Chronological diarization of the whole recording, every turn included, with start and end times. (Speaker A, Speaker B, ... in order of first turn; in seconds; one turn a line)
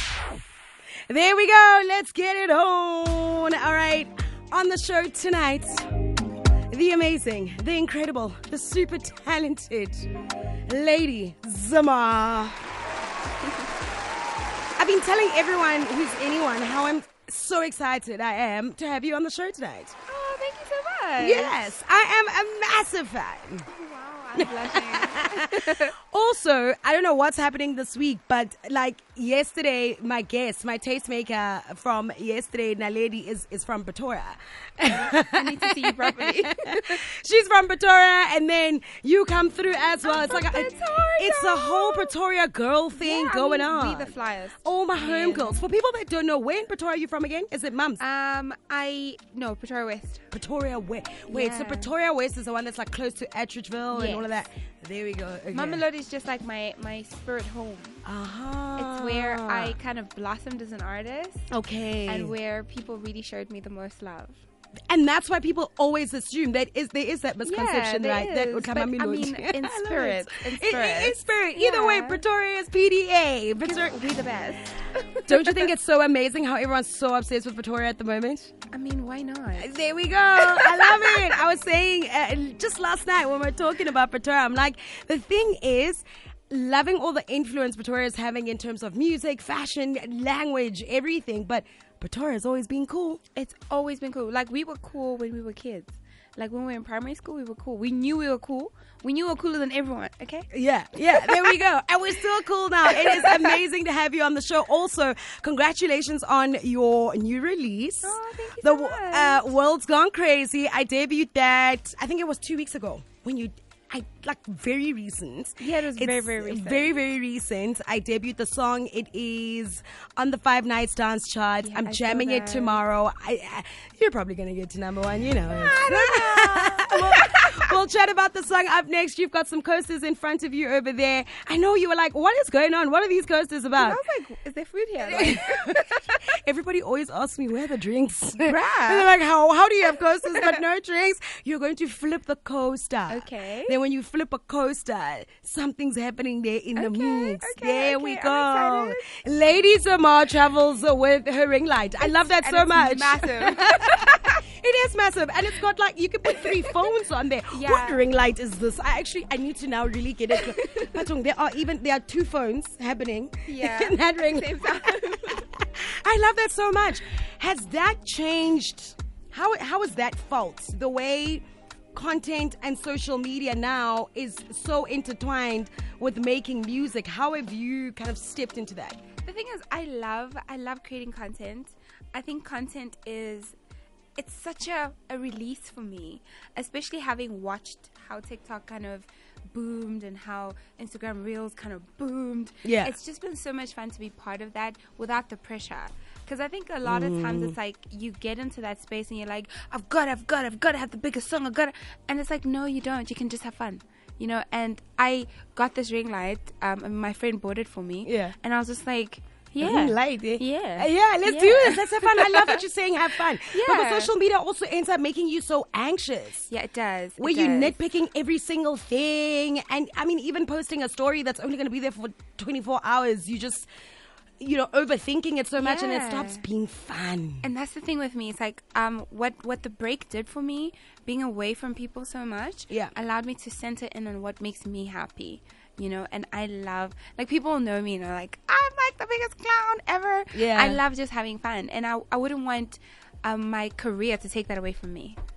Speaker A: 1.1-5.9
Speaker A: 6.7-10.1
Speaker A: 10.7-12.6
Speaker A: 14.8-19.9
Speaker B: 20.1-21.7
Speaker A: 21.2-23.7
Speaker B: 23.7-25.9
Speaker A: 24.4-48.0
Speaker B: 34.8-37.0
Speaker B: 40.0-42.1
Speaker B: 42.9-45.6
Speaker B: 48.0-50.2
Speaker A: 50.3-55.8
Speaker B: 51.3-51.9
Speaker B: 53.9-54.2
Speaker B: 55.5-58.0
Speaker A: 58.0-59.7
Speaker B: 58.8-61.5
Speaker A: 61.5-62.3
Speaker B: 62.0-64.4
Speaker A: 64.9-74.0
Speaker B: 67.4-72.2
Speaker B: 73.6-75.7
Speaker A: 75.3-78.5
Speaker B: 78.7-79.8
Speaker A: 79.6-93.2
Speaker B: 80.4-81.3
Speaker B: 93.3-100.5
Speaker A: 100.5-134.0
Speaker B: 101.1-101.5
Speaker B: 102.9-103.5
Speaker B: 108.0-109.5
Speaker B: 115.6-117.0
Speaker B: 121.6-122.8
Speaker B: 125.5-127.7
Speaker B: 133.8-136.2
Speaker A: 135.0-179.0
Speaker B: 138.4-139.1
Speaker B: 140.2-140.6
Speaker B: 143.1-143.8
Speaker B: 146.8-149.1
Speaker B: 152.0-154.4
Speaker B: 156.3-156.9
Speaker B: 157.5-158.0
Speaker B: 160.3-161.0
Speaker B: 163.4-165.5
Speaker B: 179.2-183.6
Speaker B: 184.2-212.6
Speaker A: 192.6-192.9
Speaker A: 196.8-197.5
Speaker A: 208.0-208.3
Speaker A: 209.6-216.5
Speaker B: 213.4-214.1
Speaker B: 216.5-217.8
Speaker A: 217.2-223.7
Speaker A: 224.4-227.4
Speaker B: 225.6-226.4
Speaker B: 227.4-245.2
Speaker A: 240.3-240.8